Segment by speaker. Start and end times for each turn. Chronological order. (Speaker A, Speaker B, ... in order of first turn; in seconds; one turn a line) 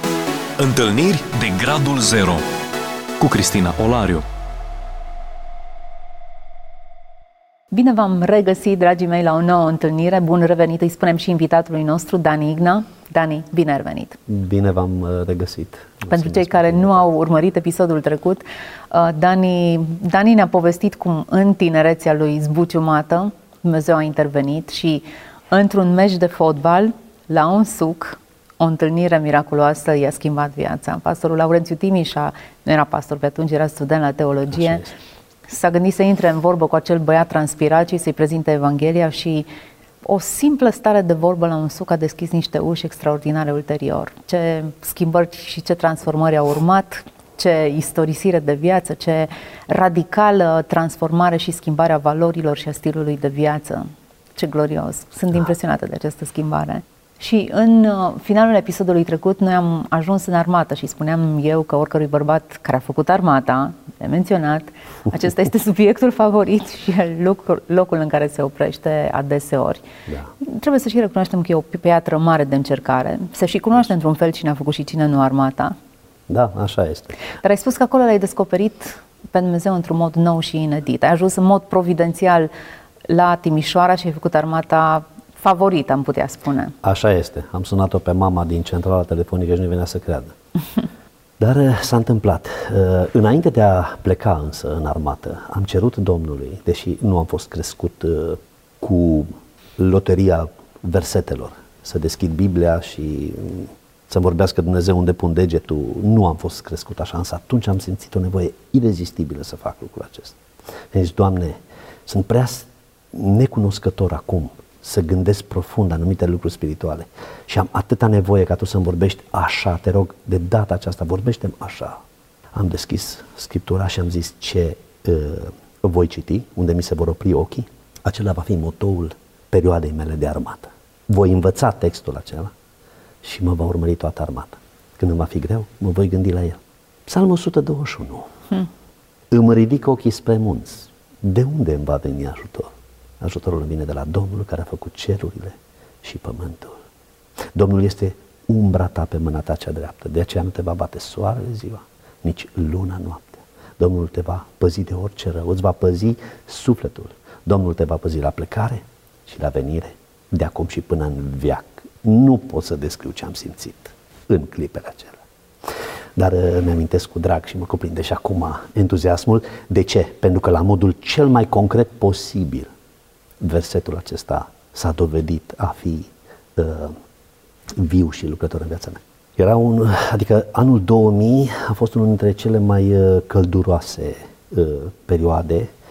Speaker A: 0.6-2.4
Speaker A: 3.2-4.2
Speaker B: 7.7-14.2
Speaker C: 14.3-17.1
Speaker B: 16.1-34.9
Speaker C: 34.5-35.0
Speaker B: 35.5-39.5
Speaker B: 40.0-69.8
Speaker C: 70.1-70.3
Speaker B: 70.4-75.7
Speaker C: 76.3-77.2
Speaker B: 77.4-82.5
Speaker B: 83.1-86.8
Speaker C: 86.8-90.3
Speaker C: 91.4-110.4
Speaker C: 110.9-122.0
Speaker C: 122.5-132.5
Speaker C: 133.2-138.3
Speaker C: 139.3-146.8
Speaker C: 147.5-165.2
Speaker C: 166.2-172.7
Speaker C: 173.4-177.0
Speaker C: 177.7-185.7